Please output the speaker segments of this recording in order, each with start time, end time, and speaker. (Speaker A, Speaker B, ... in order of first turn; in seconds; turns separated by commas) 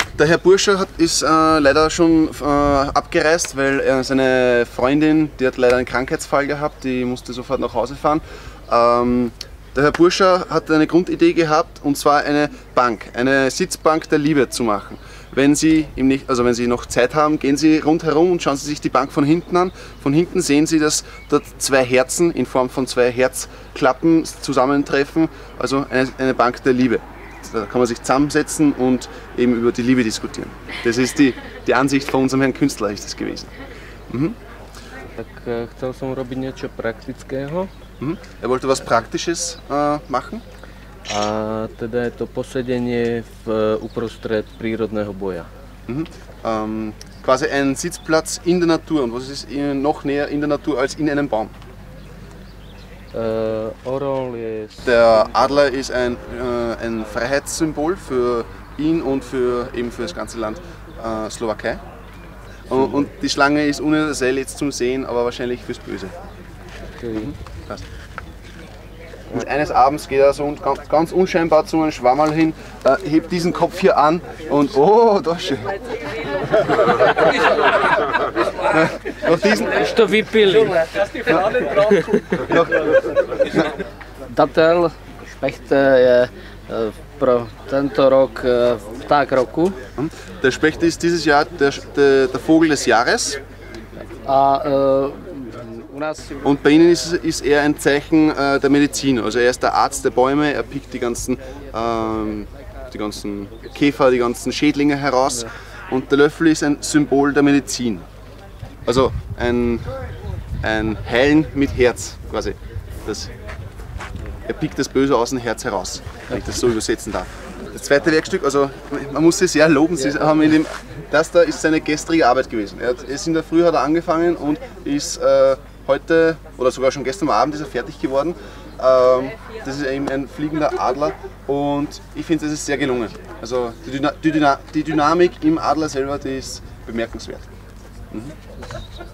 Speaker A: 0.2-33.5, Speaker A: 34.1-34.4, Speaker B: 35.2-37.7, Speaker A: 38.0-40.4, Speaker B: 41.1-45.5, Speaker A: 45.9-51.5, Speaker B: 53.1-54.9, Speaker A: 54.9-61.8, Speaker A: 62.7-66.2, Speaker A: 67.1-67.8, Speaker A: 69.3-75.8, Speaker A: 78.7-80.1, Speaker C: 80.0-80.7, Speaker C: 84.3-89.8, Speaker A: 90.0-93.4, Speaker C: 94.3-96.3, Speaker A: 96.4-108.1, Speaker A: 108.9-109.9, Speaker A: 110.6-113.3, Speaker A: 114.5-137.5